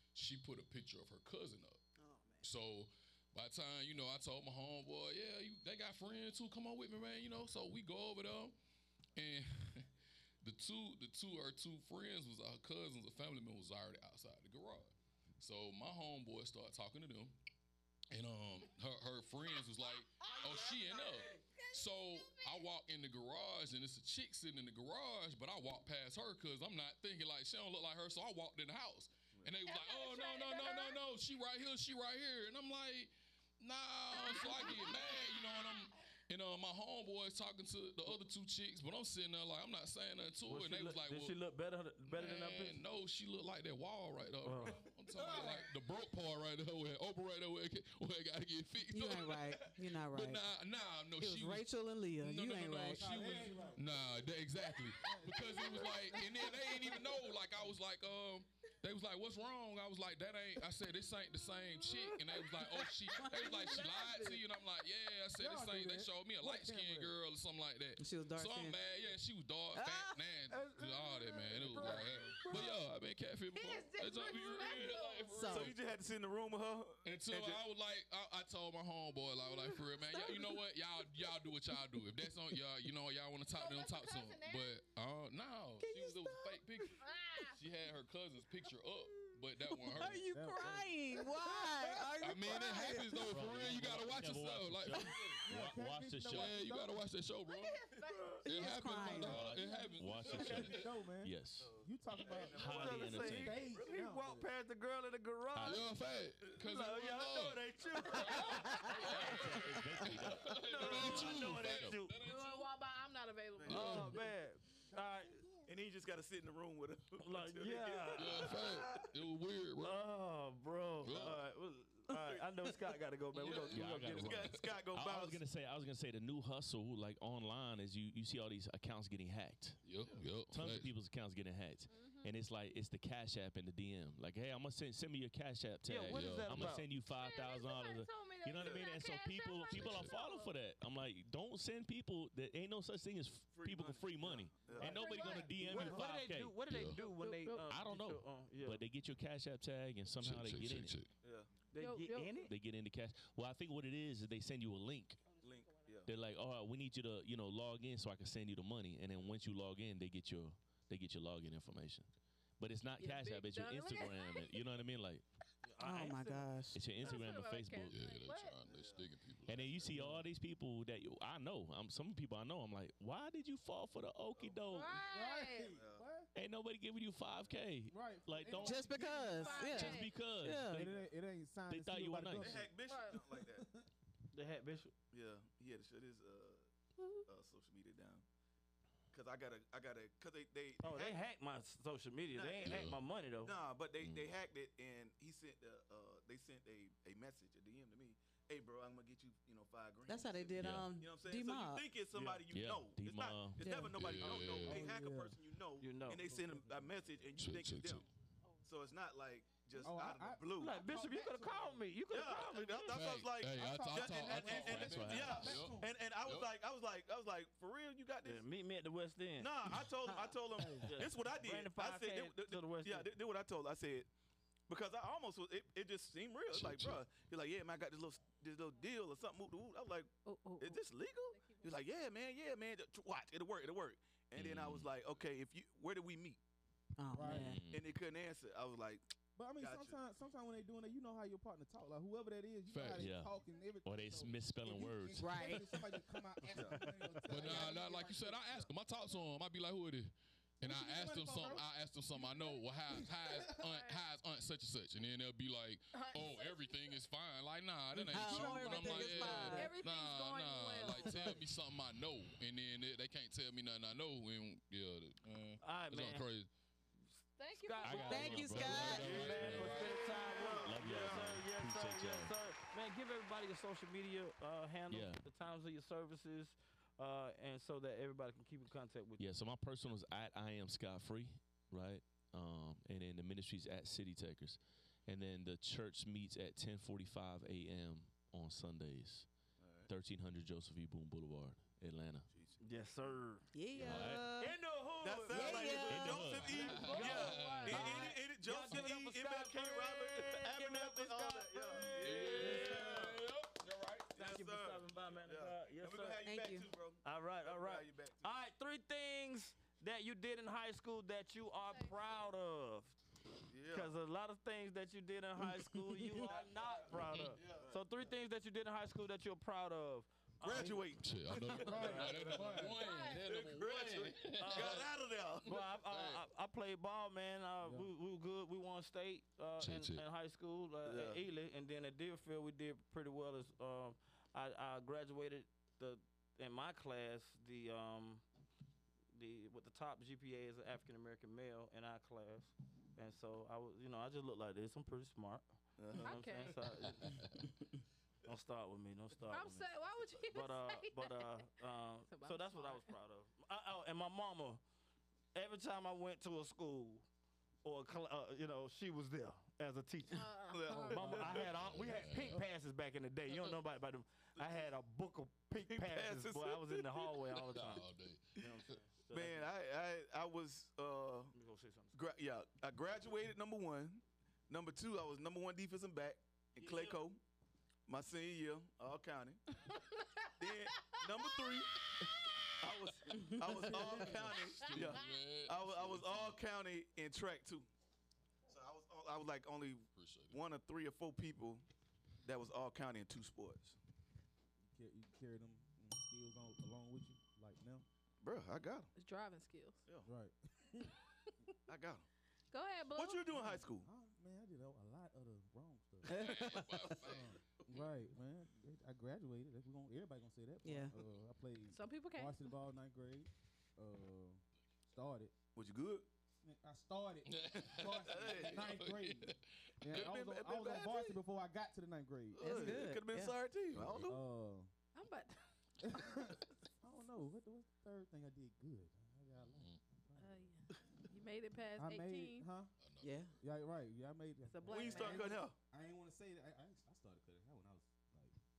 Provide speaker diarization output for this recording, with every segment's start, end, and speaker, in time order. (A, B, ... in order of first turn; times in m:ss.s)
0:00.1-0:01.8 A
0:02.0-0:02.4 B
0:02.4-0:08.5 A
0:09.2-0:09.9 A
0:10.4-0:17.3 A
0:18.1-0:41.4 A
0:20.2-0:22.6 C
0:29.6-0:31.0 C
0:34.1-0:35.5 C
0:40.5-0:42.8 D
0:42.0-0:51.7 A
0:44.4-0:44.8 D
0:45.1-0:45.8 E
0:48.9-0:50.5 B
0:51.2-0:53.5 B
0:52.2-1:15.8 A
0:52.9-0:54.0 E
0:54.6-0:57.2 C
0:55.0-0:55.5 E
1:02.2-1:04.2 B
1:03.1-1:04.4 C
1:05.3-1:07.2 E
1:08.0-1:08.8 B
1:09.7-1:10.6 B
1:11.8-1:12.0 B
1:12.5-1:12.7 C
1:13.5-1:15.5 C
1:15.3-1:15.7 B
1:15.5-1:17.6 F
1:17.0-1:27.0 A
1:19.8-1:20.6 C
1:23.5-1:24.8 C
1:25.8-1:26.9 B
1:27.0-1:27.6 C
1:27.5-1:30.3 A
1:29.3-1:33.4 B
1:30.2-1:30.9 E
1:31.4-1:32.1 E
1:32.2-1:35.2 A
1:32.7-1:33.9 E
1:33.2-1:36.6 G
1:35.5-1:37.0 E
1:36.3-1:37.8 A
1:37.4-1:40.4 C
1:38.4-1:39.4 B
1:38.4-1:40.8 A
1:39.1-1:41.8 G
1:40.3-1:40.8 D
1:40.6-1:44.5 E
1:41.6-1:43.9 F
1:42.4-1:43.6 G
1:42.5-1:45.8 D
1:45.5-1:45.9 G
1:45.6-1:49.6 A
1:46.6-1:52.2 D
1:47.8-1:48.4 F
1:49.1-1:52.0 G
1:50.4-1:52.7 A
1:52.2-1:54.2 C
1:53.6-1:54.2 F
1:53.7-1:55.4 D
1:53.7-1:54.2 A
1:54.9-1:55.7 E
1:55.6-1:59.1 F
1:57.2-1:58.8 D
1:58.1-2:00.0 A
1:59.8-2:04.5 D
2:01.0-2:01.4 A
2:01.0-2:01.4 F
2:02.1-2:02.8 F
2:03.4-2:03.7 A
2:03.7-2:05.4 F
2:03.7-2:09.8 G
2:09.8-2:10.9 A
2:10.5-2:26.6 G
2:11.9-2:12.3 C
2:15.8-2:16.9 D
2:16.1-2:16.8 A
2:17.0-2:20.5 C
2:18.6-2:18.8 F
2:19.7-2:20.1 A
2:23.5-2:25.0 F
2:24.8-2:25.8 C
2:24.8-2:26.0 E
2:25.6-2:28.8 D
2:26.7-2:27.0 A
2:27.0-2:27.6 C
2:27.7-2:31.0 G
2:30.2-2:31.1 A
2:31.2-2:31.5 F
2:31.7-2:32.5 D
2:31.8-2:32.4 C
2:32.4-2:35.2 G
2:35.3-2:36.0 C
2:35.4-2:36.1 F
2:36.0-2:45.2 G
2:43.0-2:44.6 C
2:45.6-2:46.5 D
2:45.8-2:46.8 B
2:46.7-2:48.0 G
2:47.0-2:48.6 C
2:47.9-2:49.7 A
2:48.6-2:50.0 F
2:49.5-2:55.0 G
2:49.9-2:50.2 E
2:54.7-2:55.8 C
2:55.0-2:56.3 E
2:55.7-2:56.0 F
2:56.3-2:58.9 G
2:57.9-2:59.8 E
2:58.6-3:00.9 B
2:59.0-3:00.2 C
2:59.5-3:01.1 G
3:00.5-3:02.7 E
3:01.7-3:02.6 G
3:02.4-3:03.6 F
3:02.8-3:03.2 C
3:03.4-3:03.8 E
3:04.3-3:04.9 D
3:05.1-3:06.7 F
3:07.0-3:07.2 C
3:07.3-3:08.2 F
3:09.1-3:11.2 F
3:10.8-3:13.5 D
3:12.3-3:12.9 F
3:12.6-3:13.0 A
3:13.4-3:28.0 F
3:14.0-3:14.3 G
3:20.1-3:21.8 B
3:20.6-3:20.9 G
3:22.1-3:22.4 D
3:22.5-3:23.8 G
3:23.6-3:24.2 B
3:23.8-3:24.9 A
3:24.3-3:25.4 E
3:25.8-3:26.2 D
3:26.2-3:27.0 E
3:27.3-3:28.1 A
3:28.6-3:30.8 F
3:29.8-3:31.8 E
3:30.6-3:33.0 D
3:32.1-3:38.4 F
3:32.8-3:36.5 A
3:33.5-3:35.9 E
3:34.7-3:35.6 G
3:38.2-3:43.1 D
3:39.4-3:44.1 F
3:40.6-3:40.9 E
3:44.7-3:56.4 F
3:46.5-3:47.0 A
3:50.2-3:51.8 C
3:54.4-3:54.9 G
3:57.0-3:57.6 B
3:57.1-3:57.6 E
3:57.2-3:57.9 G
3:57.7-4:00.0 F
3:59.3-4:08.3 E
4:02.7-4:03.1 A
4:03.0-4:05.5 G
4:05.2-4:05.8 B
4:06.5-4:07.7 F
4:07.3-4:26.5 A
4:08.3-4:08.7 F
4:10.6-4:13.5 E
4:13.6-4:14.0 C
4:15.9-4:16.8 C
4:18.0-4:19.7 B
4:18.3-4:21.4 C
4:18.3-4:19.2 E
4:25.6-4:26.2 D
4:27.4-4:28.4 C
4:27.6-4:39.2 D
4:27.8-4:29.8 G
4:28.1-4:29.1 B
4:28.3-4:30.2 A
4:29.4-4:31.3 F
4:30.6-4:32.4 G
4:34.9-4:35.2 G
4:39.2-4:49.3 G
4:49.6-4:49.9 F
4:49.8-4:52.3 G
4:52.3-4:52.6 F
4:52.6-5:03.2 D
4:53.5-4:54.6 B
4:53.8-4:54.3 G
4:55.0-5:03.3 F
4:55.3-4:56.3 B
4:55.7-4:56.8 G
4:56.6-4:58.0 A
4:56.8-4:57.8 C
5:01.9-5:04.0 A
5:04.0-5:08.3 F
5:04.2-5:06.2 D
5:06.2-5:06.7 B
5:07.0-5:13.0 D
5:11.7-5:11.9 C
5:13.5-5:13.9 F
5:13.7-5:20.8 D
5:16.2-5:17.8 F
5:20.4-5:22.7 F
5:20.5-5:22.8 E
5:21.0-5:24.8 A
5:21.8-5:22.3 D
5:22.7-5:23.3 C
5:23.3-5:25.5 F
5:24.3-5:24.8 D
5:25.4-5:26.2 A
5:25.4-5:38.2 D
5:27.6-5:27.9 E
5:29.6-5:30.0 A
5:30.8-5:31.2 F
5:39.1-5:47.2 D
5:45.8-5:46.1 F
5:45.9-5:46.6 C
5:47.0-5:47.4 A
5:48.2-5:49.6 D
5:49.3-5:51.3 C
5:50.2-5:54.6 D
5:52.1-5:52.9 C
5:55.3-5:57.1 D
5:57.6-6:00.3 D
6:00.1-6:01.4 C
6:00.5-6:01.4 F
6:00.8-6:09.5 D
6:01.4-6:02.4 A
6:05.6-6:07.2 F
6:07.5-6:08.8 A
6:09.1-6:11.3 F
6:11.3-6:12.0 D
6:11.9-6:17.2 F
6:16.6-6:17.0 D
6:17.9-6:19.4 F
6:19.7-6:22.5 C
6:20.4-6:27.7 F
6:23.1-6:24.0 B
6:23.7-6:24.0 E
6:24.2-6:26.4 A
6:24.4-6:25.2 C
6:28.5-6:31.6 F
6:30.0-6:30.4 A
6:32.2-6:33.8 F
6:34.7-6:37.8 E
6:38.2-6:38.9 F
6:39.0-6:39.8 C
6:40.0-6:40.9 E
6:40.8-6:41.3 C
6:41.7-6:42.0 F
6:42.5-6:43.4 C
6:42.9-6:43.9 F
6:43.4-6:55.3 E
6:46.1-6:47.1 B
6:46.1-6:47.8 A
6:50.6-6:51.0 B
6:51.7-6:52.6 C
6:55.5-6:56.1 F
6:56.4-7:02.8 E
6:57.3-7:00.1 A
6:57.8-6:58.7 F
6:59.9-7:01.2 F
7:02.3-7:04.2 F
7:02.4-7:03.4 B
7:03.7-7:04.0 A
7:03.9-7:04.7 E
7:04.9-7:05.4 C
7:05.8-7:10.5 E
7:09.4-7:09.8 A
7:10.2-7:12.5 C
7:11.8-7:12.7 E
7:12.8-7:13.3 A
7:13.0-7:13.3 B
7:13.4-7:18.3 E
7:14.5-7:15.4 C
7:14.7-7:15.6 F